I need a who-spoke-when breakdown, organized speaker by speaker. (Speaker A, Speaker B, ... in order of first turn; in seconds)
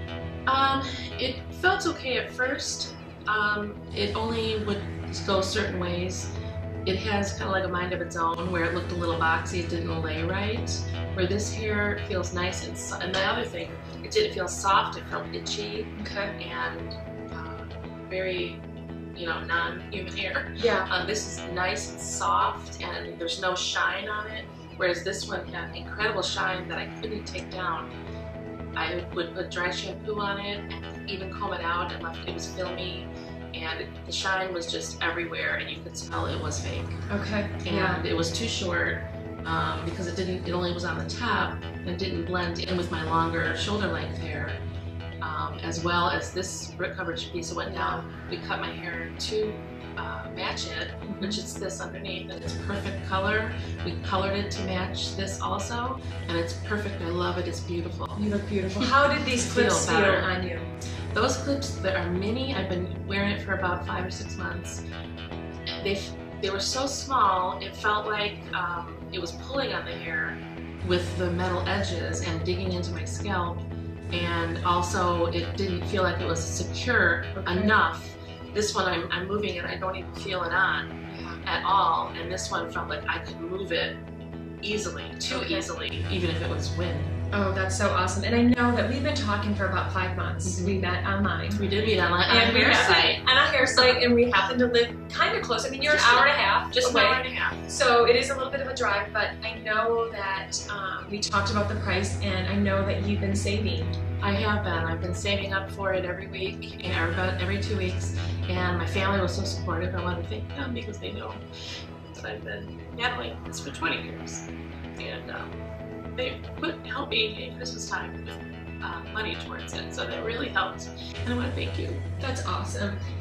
Speaker A: 0.5-6.3, 6.8-18.6, 19.1-27.9, 28.8-37.0, 37.6-44.6, 45.2-58.2, 58.8-60.3, 61.1-64.8, 65.7-84.0, 84.6-87.2, 90.4-90.8, 91.5-94.1, 95.8-97.7, 104.2-111.4, 112.1-115.5, 116.2-122.0
Speaker B: 16.0-16.3, 20.6-20.9, 37.1-38.0, 47.7-48.1, 51.1-51.4, 58.2-60.7, 77.3-77.8, 81.1-81.4, 85.3-85.7, 87.3-91.6, 92.3-104.0, 122.2-123.0